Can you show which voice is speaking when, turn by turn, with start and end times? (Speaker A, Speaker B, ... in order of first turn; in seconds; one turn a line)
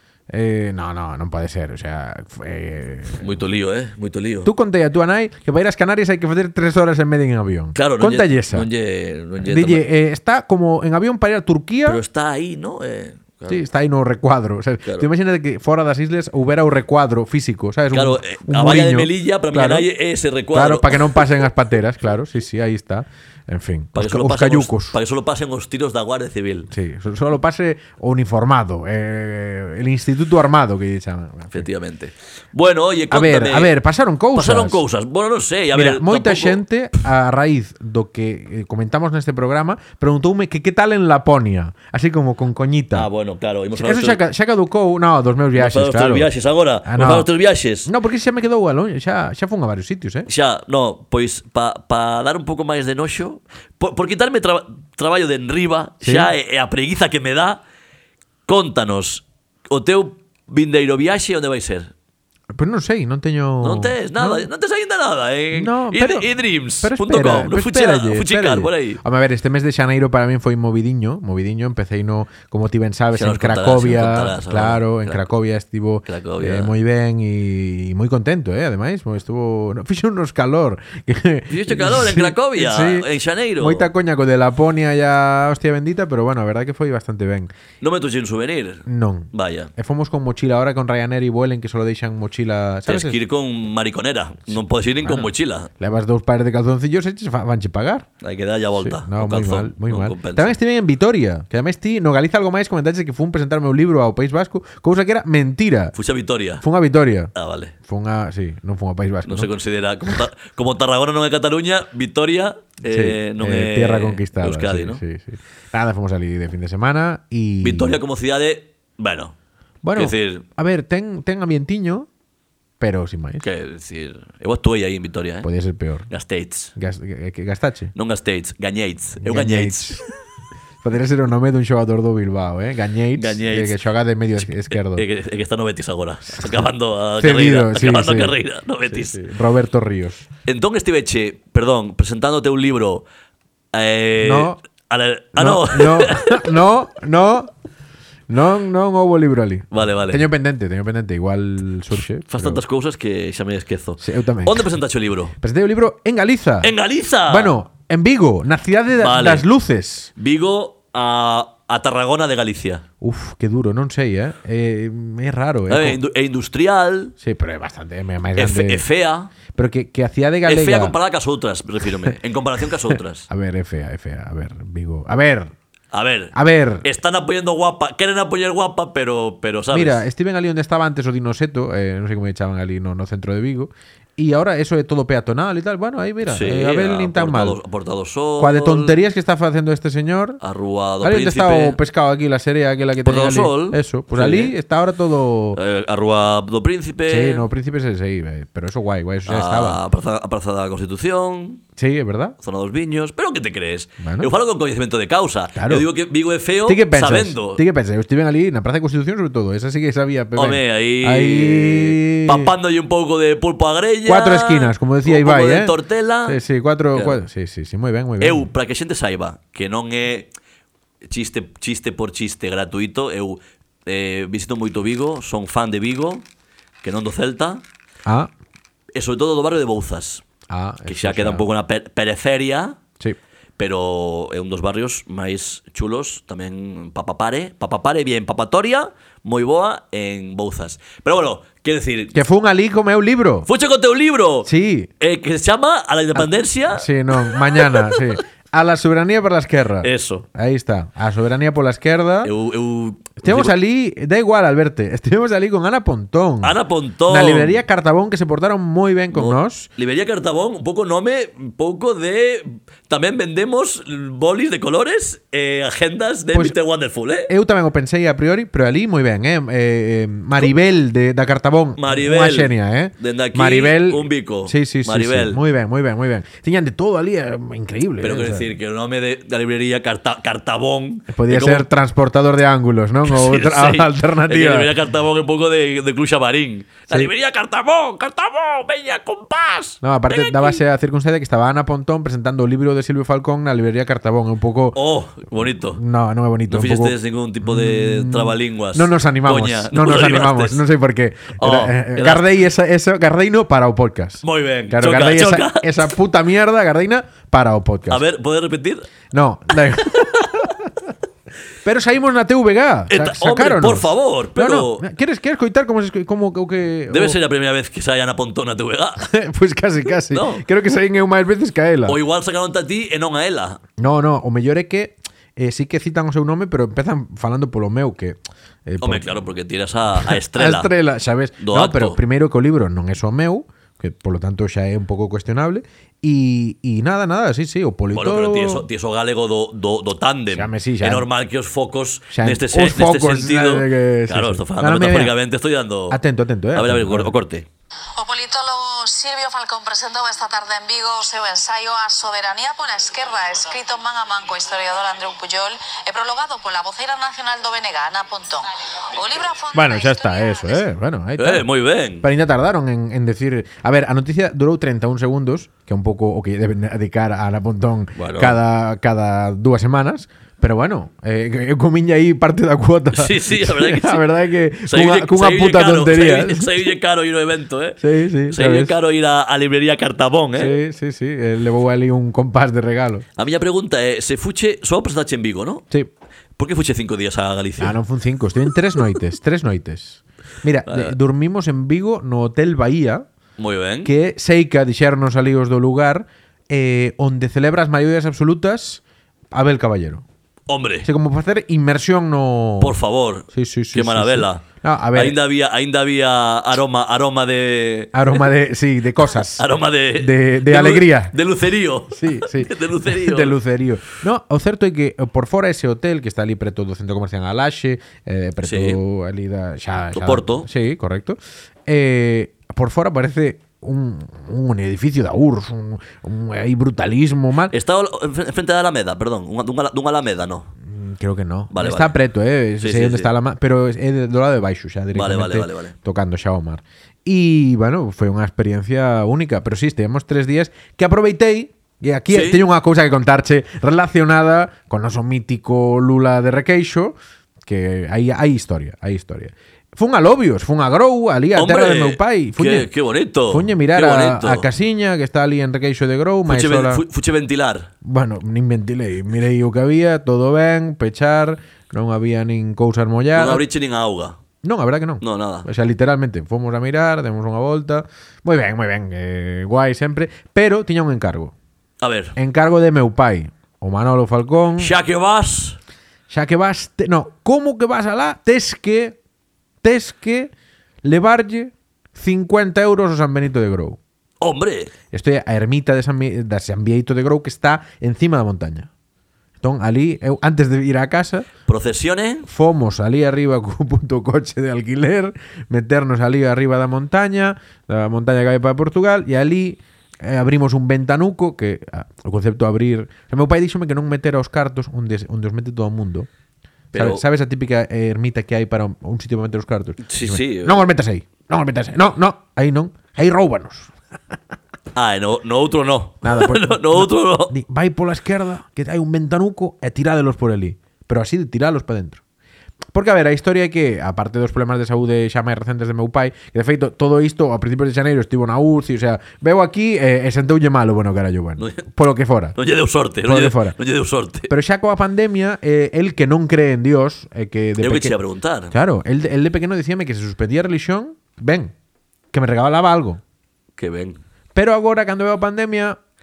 Speaker A: 0.3-3.3
Speaker B: 3.2-4.5
Speaker A: 4.4-8.7
Speaker B: 7.8-9.8
Speaker A: 9.4-12.0
Speaker B: 11.8-13.6
Speaker A: 13.5-19.9
Speaker B: 17.9-21.3
Speaker A: 20.5-25.0
Speaker B: 23.9-26.7
Speaker A: 26.7-31.6
Speaker B: 31.5-33.7
Speaker A: 33.1-34.8
Speaker B: 34.4-36.6
Speaker A: 35.7-43.1
Speaker B: 42.9-44.2
Speaker A: 43.8-46.3
Speaker B: 45.5-47.9
Speaker A: 46.9-47.3
Speaker A: 47.9-50.3
Speaker B: 50.3-57.6
Speaker A: 56.0-56.3
Speaker B: 58.5-61.9
Speaker A: 62.5-64.5
Speaker B: 63.6-69.0
Speaker A: 65.5-83.1
Speaker B: 73.1-75.3
Speaker B: 76.1-76.7
Speaker B: 81.5-83.9
Speaker A: 83.6-87.5
Speaker B: 87.8-89.7
Speaker A: 88.9-93.2
Speaker B: 92.9-95.7
Speaker A: 95.8-98.1
Speaker B: 98.2-100.5
Speaker A: 98.8-106.0
Speaker B: 106.0-106.6
Speaker A: 106.6-107.3
Speaker B: 107.3-107.7
Speaker A: 107.8-109.5
Speaker B: 109.2-115.0
Speaker A: 112.9-118.0
Speaker B: 117.6-119.3
Speaker A: 119.8-122.1
Speaker B: 120.0-120.5
Speaker A: 122.8-123.5
Speaker B: 123.4-125.5
Speaker A: 125.4-126.1
Speaker B: 126.1-126.7
Speaker A: 126.8-127.9
Speaker B: 128.0-130.1
Speaker A: 129.2-130.1
Speaker A: 130.8-135.1
Speaker B: 133.2-133.8
Speaker B: 134.4-139.2
Speaker A: 137.2-138.4
Speaker A: 138.9-140.2
Speaker B: 140.5-143.1
Speaker B: 143.7-146.6
Speaker A: 144.2-144.6
Speaker A: 145.4-147.5
Speaker A: 148.3-152.6
Speaker B: 149.7-150.3
Speaker B: 152.3-155.3
Speaker A: 154.0-154.7
Speaker A: 155.4-156.7
Speaker B: 156.6-157.6
Speaker A: 157.3-160.1
Speaker B: 159.0-159.5
Speaker B: 160.2-162.8
Speaker A: 163.0-166.0
Speaker B: 165.7-167.1
Speaker A: 167.2-168.8
Speaker B: 168.4-169.3
Speaker A: 169.5-171.0
Speaker B: 170.5-173.3
Speaker A: 173.3-175.5
Speaker B: 175.9-180.0
Speaker A: 176.3-176.9
Speaker A: 179.7-187.6
Speaker B: 186.3-189.0
Speaker A: 188.4-190.4
Speaker B: 190.4-191.8
Speaker A: 191.0-195.6
Speaker B: 193.0-194.5
Speaker B: 195.6-197.5
Speaker A: 197.1-199.8
Speaker B: 199.3-201.6
Speaker A: 201.8-202.4
Speaker B: 202.4-207.6
Speaker A: 204.0-204.3
Speaker A: 205.6-205.9
Speaker A: 206.7-212.5
Speaker B: 210.4-216.4
Speaker A: 214.1-218.5
Speaker B: 216.9-217.2
Speaker B: 218.2-220.3
Speaker B: 221.0-226.3
Speaker B: 226.8-227.6
Speaker B: 228.9-230.2
Speaker A: 230.5-231.4
Speaker B: 230.9-232.8
Speaker B: 233.6-242.2
Speaker A: 242.1-243.5
Speaker B: 243.5-244.5
Speaker A: 244.4-244.9
Speaker B: 245.0-248.1
Speaker A: 246.2-252.3
Speaker B: 249.8-250.3
Speaker B: 252.2-253.5
Speaker A: 253.2-256.6
Speaker B: 256.4-257.6
Speaker A: 257.1-259.7
Speaker B: 259.1-267.3
Speaker A: 267.3-278.5
Speaker B: 271.8-275.4
Speaker B: 278.0-281.7
Speaker A: 281.1-284.7
Speaker B: 283.1-290.6
Speaker A: 289.8-294.8
Speaker B: 294.8-295.8
Speaker A: 295.7-308.0
Speaker B: 296.5-300.6
Speaker B: 301.4-302.3
Speaker B: 304.2-305.9
Speaker B: 307.9-308.9
Speaker A: 309.1-310.7
Speaker B: 309.5-310.3
Speaker A: 311.6-317.2
Speaker B: 312.9-314.8
Speaker B: 316.9-319.0
Speaker A: 319.0-322.0
Speaker B: 320.1-320.4
Speaker B: 321.9-323.6
Speaker A: 323.8-329.3
Speaker B: 328.8-330.7
Speaker A: 330.0-338.7
Speaker B: 331.4-332.0
Speaker B: 337.9-346.0
Speaker A: 340.3-341.1
Speaker A: 342.1-345.1
Speaker A: 345.9-347.1
Speaker B: 346.5-347.5
Speaker C: 348.0-360.6
Speaker A: 359.5-361.4
Speaker B: 361.2-362.1
Speaker A: 362.0-376.7
Speaker B: 368.0-368.4
Speaker B: 372.9-374.0
Speaker B: 374.7-380.5
Speaker A: 377.8-378.8
Speaker A: 380.4-383.1
Speaker B: 383.2-385.6
Speaker B: 386.4-387.8
Speaker A: 387.6-393.1
Speaker B: 390.7-390.9
Speaker B: 393.4-393.9
Speaker A: 393.8-400.1
Speaker B: 400.5-400.9
Speaker A: 400.8-402.8
Speaker B: 402.6-408.3
Speaker A: 403.3-405.2
Speaker A: 407.9-409.5
Speaker B: 409.0-413.4
Speaker A: 410.0-411.1
Speaker A: 411.9-427.5
Speaker B: 418.4-418.8
Speaker B: 419.9-420.5
Speaker B: 427.5-430.5
Speaker A: 430.6-446.9
Speaker B: 431.5-432.0
Speaker B: 432.6-433.1
Speaker B: 434.9-435.7
Speaker B: 442.1-442.4
Speaker A: 447.5-452.7
Speaker B: 451.4-454.5
Speaker A: 453.3-456.8
Speaker B: 456.3-457.7
Speaker A: 457.8-463.4
Speaker B: 463.1-464.2
Speaker A: 464.4-471.3
Speaker B: 465.0-465.5
Speaker B: 471.8-472.1
Speaker A: 472.2-474.7
Speaker B: 474.6-475.6
Speaker A: 476.1-479.0
Speaker A: 479.6-480.3
Speaker A: 480.8-483.8
Speaker B: 484.2-484.7
Speaker A: 484.9-488.7
Speaker A: 489.4-491.3
Speaker B: 491.5-492.3
Speaker A: 492.2-506.1
Speaker B: 506.7-507.0
Speaker A: 506.7-513.7
Speaker B: 509.9-510.7
Speaker B: 514.8-517.3
Speaker A: 516.0-522.0
Speaker A: 522.7-532.4
Speaker B: 531.4-531.6
Speaker B: 532.4-534.3
Speaker A: 533.0-533.6
Speaker A: 534.3-538.0
Speaker B: 537.6-538.5
Speaker A: 538.5-541.5
Speaker A: 542.1-543.0
Speaker B: 543.6-544.0
Speaker A: 544.4-545.8